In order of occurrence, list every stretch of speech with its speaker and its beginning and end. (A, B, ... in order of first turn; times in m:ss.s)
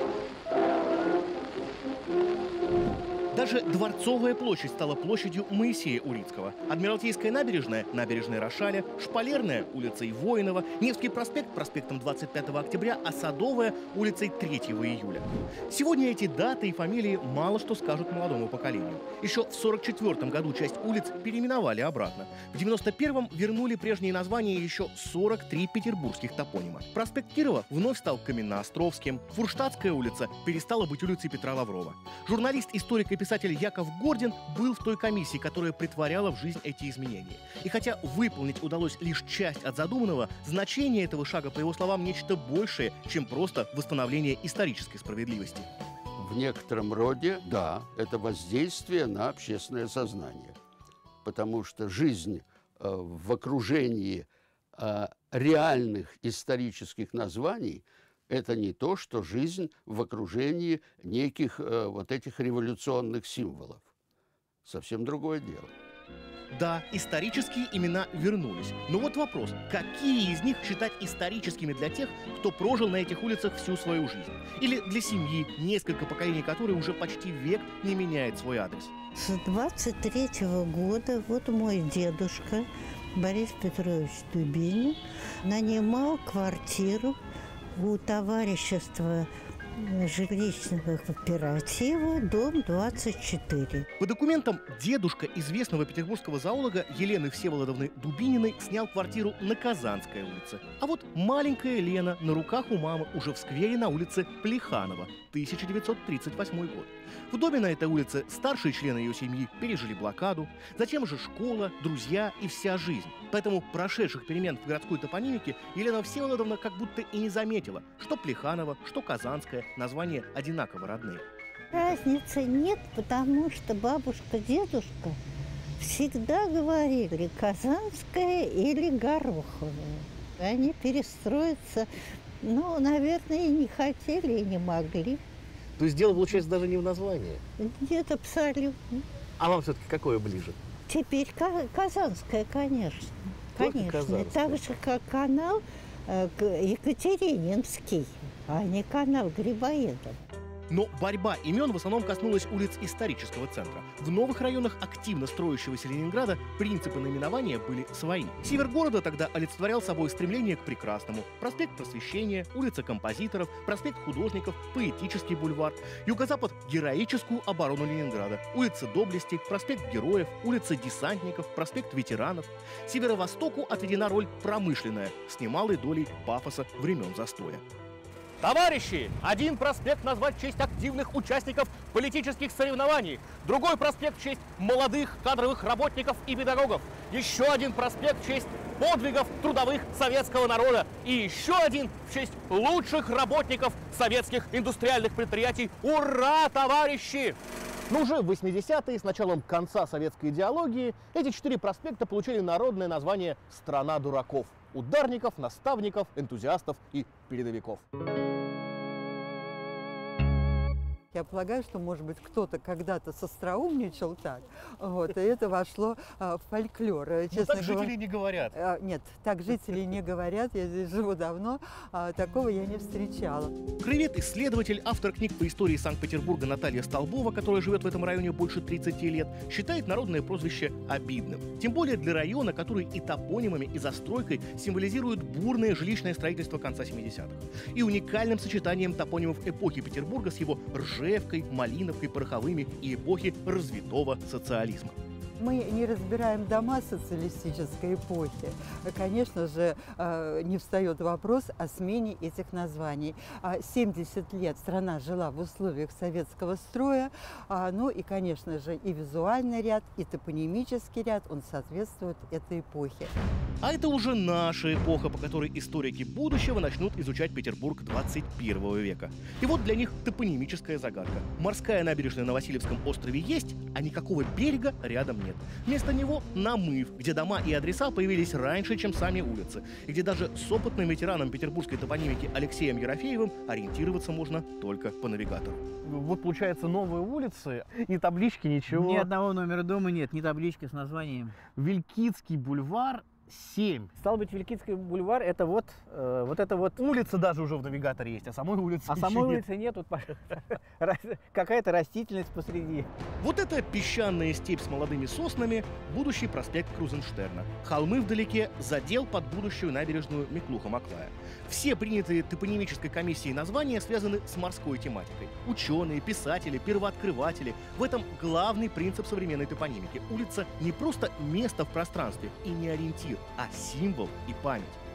0:03.3-0:45.7 A
0:46.2-0:50.6 B
0:51.2-1:03.9 B
1:04.6-1:05.7 B
1:06.5-1:18.9 A
1:19.1-1:27.2 C
1:27.7-1:33.9 C
1:34.0-2:01.2 A
2:01.7-2:05.2 C
2:05.8-2:11.9 C
2:12.4-2:15.2 C
2:15.8-2:17.4 A
2:17.6-2:19.0 C
2:19.4-2:20.6 A
2:20.9-2:30.3 C
2:23.6-2:24.6 A
2:30.7-2:57.6 A
2:58.4-3:17.4 A
3:17.9-3:27.8 A
3:31.1-3:38.0 D
3:37.3-3:38.5 A
3:38.5-3:43.6 D
3:43.8-4:05.0 A
4:05.4-4:23.1 D
4:23.6-4:49.1 A
4:48.7-4:51.4 E
4:51.6-4:53.9 A
4:54.0-4:56.8 E
4:56.8-4:59.4 A
4:58.9-5:02.9 E
5:03.2-5:24.8 A